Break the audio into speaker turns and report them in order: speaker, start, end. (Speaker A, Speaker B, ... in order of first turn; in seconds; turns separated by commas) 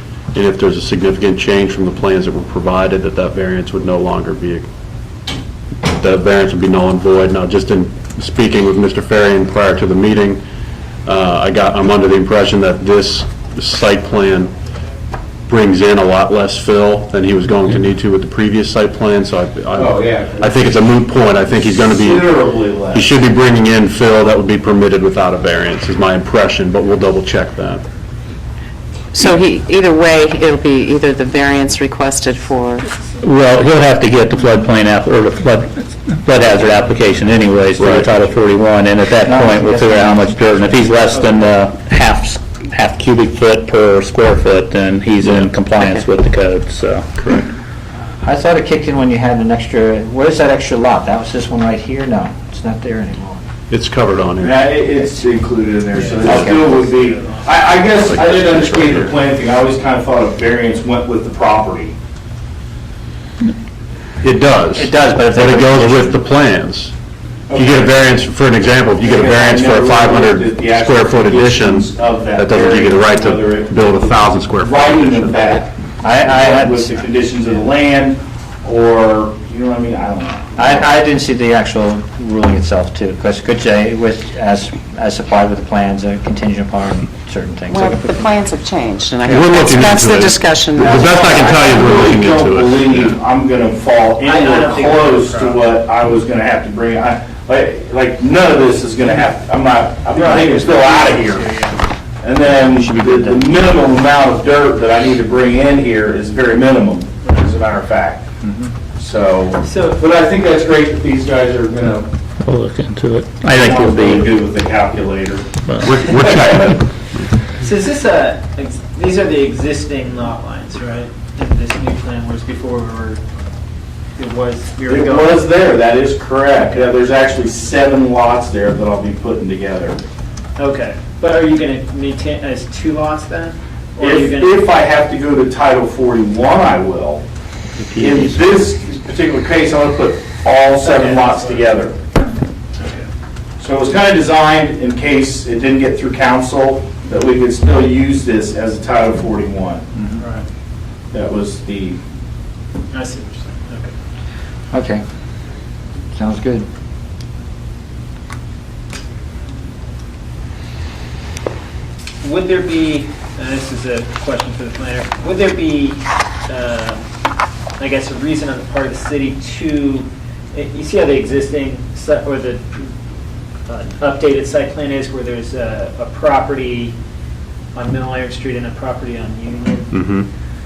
Speaker A: 0.3-4.7, Speaker A: 5.8-10.4, Speaker A: 11.0-14.5, Speaker A: 15.5-22.4, Speaker B: 19.7-20.6, Speaker B: 21.6-23.1, Speaker A: 22.9-27.8, Speaker C: 29.1-32.8, Speaker D: 33.2-47.3, Speaker E: 36.5-36.9, Speaker A: 37.8-38.1, Speaker F: 39.2-40.3, Speaker E: 41.1-41.6, Speaker A: 47.2-47.5, Speaker F: 48.2-53.4, Speaker A: 53.7-54.7, Speaker B: 54.4-61.9, Speaker F: 54.9-55.2, Speaker E: 55.9-57.9, Speaker F: 56.2-56.9, Speaker A: 57.9-59.2, Speaker A: 64.2-66.9, Speaker F: 64.8-66.2, Speaker B: 67.5-68.0, Speaker A: 67.5-75.6, Speaker B: 69.0-80.9, Speaker F: 76.0-77.0, Speaker F: 80.5-88.3, Speaker C: 87.7-91.8, Speaker A: 89.2-93.2, Speaker B: 90.8-101.4, Speaker E: 94.2-95.6, Speaker E: 100.1-101.8, Speaker B: 102.2-108.3, Speaker F: 102.6-103.5, Speaker F: 108.4-108.7, Speaker B: 108.9-112.1, Speaker E: 109.6-110.0, Speaker D: 112.4-114.3, Speaker B: 113.5-115.5, Speaker A: 115.8-117.3, Speaker E: 117.6-123.2, Speaker E: 124.2-125.4, Speaker B: 124.9-130.0, Speaker E: 130.6-134.6, Speaker B: 134.0-137.2, Speaker D: 137.8-138.4, Speaker B: 137.9-142.0, Speaker E: 140.8-141.8, Speaker E: 142.8-143.1, Speaker B: 143.6-149.9, Speaker E: 150.2-150.4, Speaker B: 151.1-152.0, Speaker E: 152.9-153.9, Speaker F: 154.7-155.0, Speaker F: 156.1-156.7, Speaker E: 162.2-167.0, Speaker E: 167.8-172.9, Speaker E: 173.7-176.9, Speaker E: 177.7-179.9, Speaker A: 179.9-180.3